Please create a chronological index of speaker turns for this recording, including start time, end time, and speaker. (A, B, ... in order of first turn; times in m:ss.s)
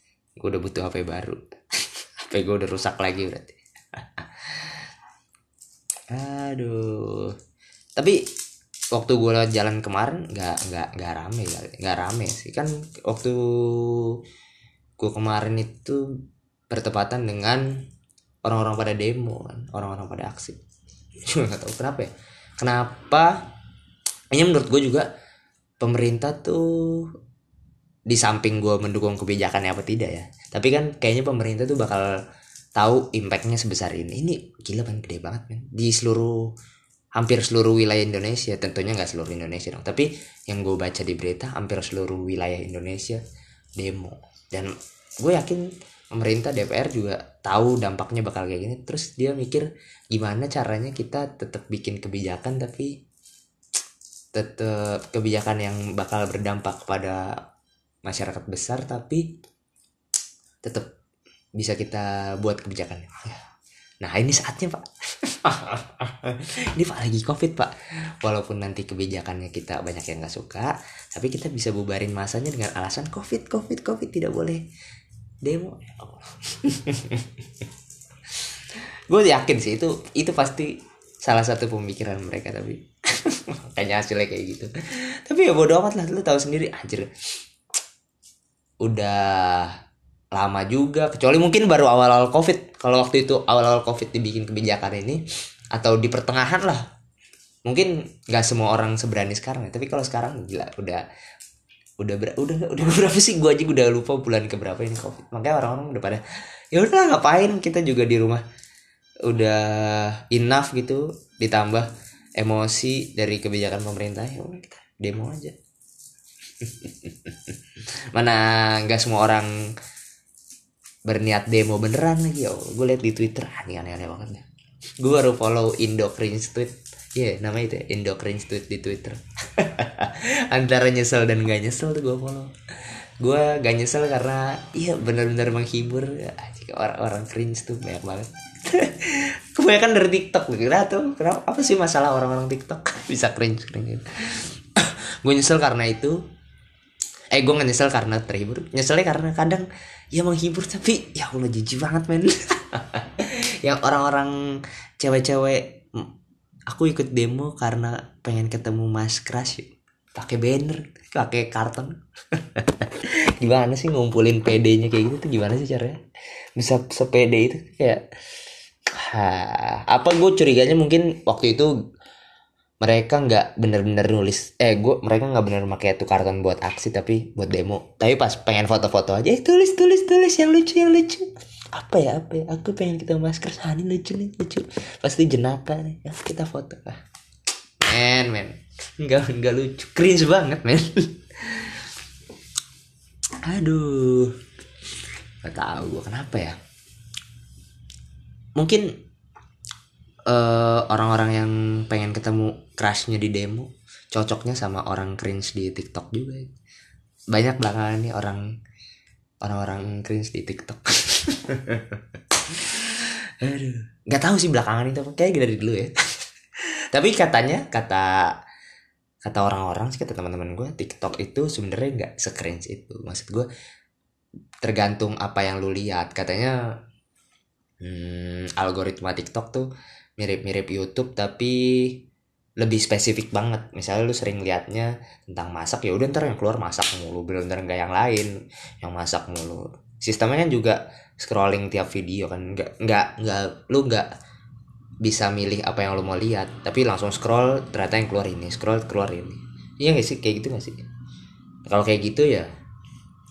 0:00.4-0:04.8 A
0:06.1-0:07.3 A
0:08.9-0:14.1 A
0:15.0-0:16.0 A
0:16.7-0:17.7 A
0:18.4-0:20.6 A
0:21.3-0:22.1 A
0:22.6-0:23.4 A
0:24.3-0:25.1 A
0:25.8-0:27.1 A
0:28.1-0:32.1 A
0:32.8-0:36.4 A
0:37.2-0:43.2 A
0:43.8-0:52.9 A
0:54.3-0:57.2 A
0:58.0-0:59.3 A
1:00.6-1:00.9 A
1:01.6-1:03.4 A
1:04.0-1:14.6 A
1:15.4-1:17.7 A
1:19.1-1:24.7 A
1:25.2-1:27.1 A
1:28.8-1:29.7 A
1:30.4-1:35.2 A
1:35.7-1:36.8 A
1:37.6-1:41.0 A
1:42.0-1:48.4 A
1:49.2-1:55.6 A
1:56.6-1:57.6 A
1:58.1-1:59.5 A
2:01.1-2:04.4 A
2:05.0-2:12.5 A
2:13.2-2:26.2 A
2:27.3-2:34.3 A
2:35.0-2:36.1 A
2:36.7-2:46.0 A
2:46.6-2:48.0 A
2:48.9-2:51.7 A
2:52.8-3:07.0 A
3:07.8-3:11.9 A
3:13.4-3:14.4 A
3:15.4-3:16.6 A
3:18.6-3:18.9 A
3:20.3-3:26.5 A
3:27.3-3:28.4 A
3:29.4-3:35.9 A
3:36.9-3:38.3 A
3:39.2-3:43.5 A
3:44.6-3:46.6 A
3:47.8-3:49.7 A
3:50.2-3:52.0 A
3:52.6-4:04.1 A
4:05.0-4:10.8 A
4:11.6-4:12.5 A